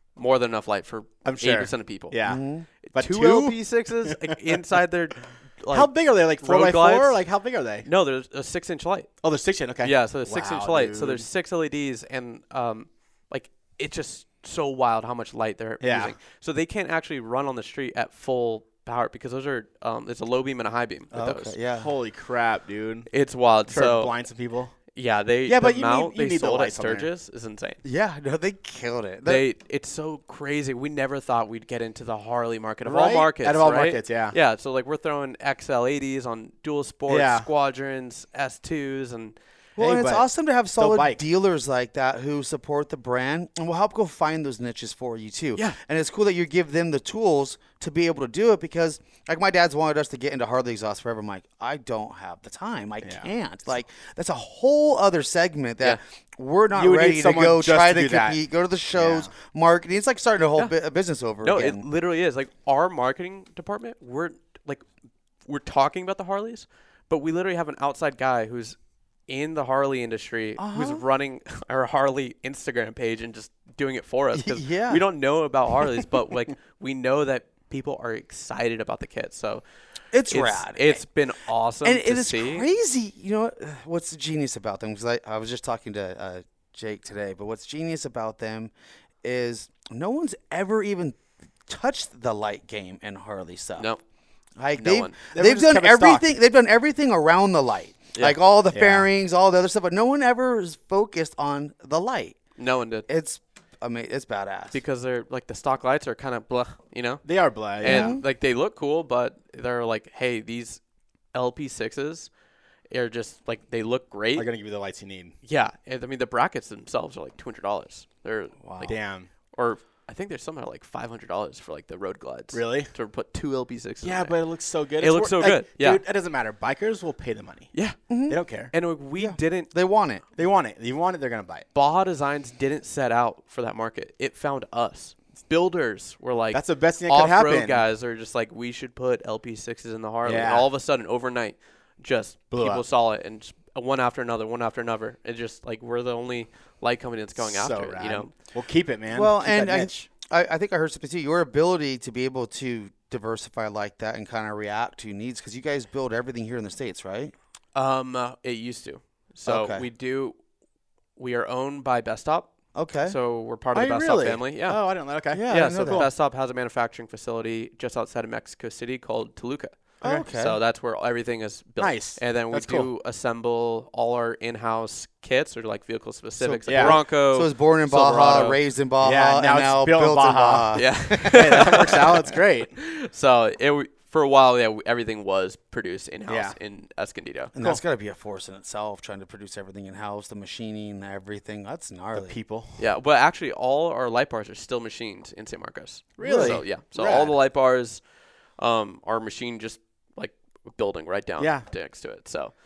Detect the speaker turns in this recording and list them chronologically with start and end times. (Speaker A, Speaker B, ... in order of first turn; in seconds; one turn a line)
Speaker A: 0.2-2.1
Speaker B: 1.2-2.4
Speaker C: 2.3-2.7
Speaker A: 2.8-7.2
Speaker B: 2.9-4.4
Speaker B: 5.7-7.9
Speaker A: 7.8-9.1
Speaker B: 9.2-11.2
Speaker A: 9.8-21.5
Speaker B: 15.8-16.1
Speaker C: 21.1-21.9
Speaker B: 21.7-23.1
Speaker A: 23.1-24.1
Speaker B: 23.7-24.8
Speaker A: 24.9-27.8
Speaker B: 25.5-27.1
Speaker C: 27.8-29.4
Speaker A: 29.2-39.4
Speaker B: 32.9-34.4
Speaker B: 37.1-37.5
Speaker C: 39.8-61.9
Speaker B: 39.8-41.2
Speaker B: 56.8-58.4
Speaker B: 58.9-59.3
Speaker A: 61.4-64.8
Speaker A: 65.5-68.8
Speaker A: 69.3-79.6
Speaker C: 70.6-71.0
Speaker C: 74.3-75.0
Speaker C: 80.1-81.0
Speaker A: 80.3-82.7
Speaker C: 81.8-88.7
Speaker C: 89.2-93.9
Speaker C: 94.6-102.4
Speaker A: 94.8-95.2
Speaker B: 95.3-96.3
Speaker B: 98.7-99.1
Speaker A: 102.6-103.1
Speaker C: 103.1-104.8
Speaker A: 104.7-107.3
Speaker B: 107.2-108.2
Speaker A: 107.8-110.8
Speaker C: 107.8-108.2
Speaker A: 111.3-112.3
Speaker A: 112.9-114.5
Speaker B: 114.4-115.3
Speaker A: 115.4-119.0
Speaker C: 118.6-118.9
Speaker B: 118.9-119.3
Speaker A: 119.5-124.4
Speaker B: 122.5-122.9
Speaker B: 124.0-127.7
Speaker A: 125.0-126.0
Speaker C: 128.1-128.4
Speaker B: 128.3-128.7
Speaker A: 128.7-129.7
Speaker C: 129.2-130.2
Speaker B: 130.4-131.7
Speaker A: 131.7-148.3
Speaker B: 136.5-137.8
Speaker B: 140.2-140.7
Speaker B: 142.5-142.8
Speaker B: 147.4-150.1
Speaker C: 149.1-157.3
Speaker A: 157.8-160.4
Speaker C: 159.5-159.8
Speaker A: 161.2-162.5
Speaker C: 162.8-163.2
Speaker A: 163.1-164.8
Speaker B: 163.7-166.1
Speaker C: 165.3-166.1
Speaker A: 165.5-178.6
Speaker C: 170.0-170.6
Speaker B: 171.8-172.9
Speaker C: 176.4-182.0
Speaker B: 176.7-177.0
Speaker B: 179.0-182.7
Speaker A: 180.8-187.5
Speaker B: 186.3-186.6
Speaker C: 187.6-192.4
Speaker B: 192.1-192.8
Speaker A: 192.8-198.0
Speaker B: 196.2-197.3
Speaker A: 198.6-202.5
Speaker B: 201.4-201.7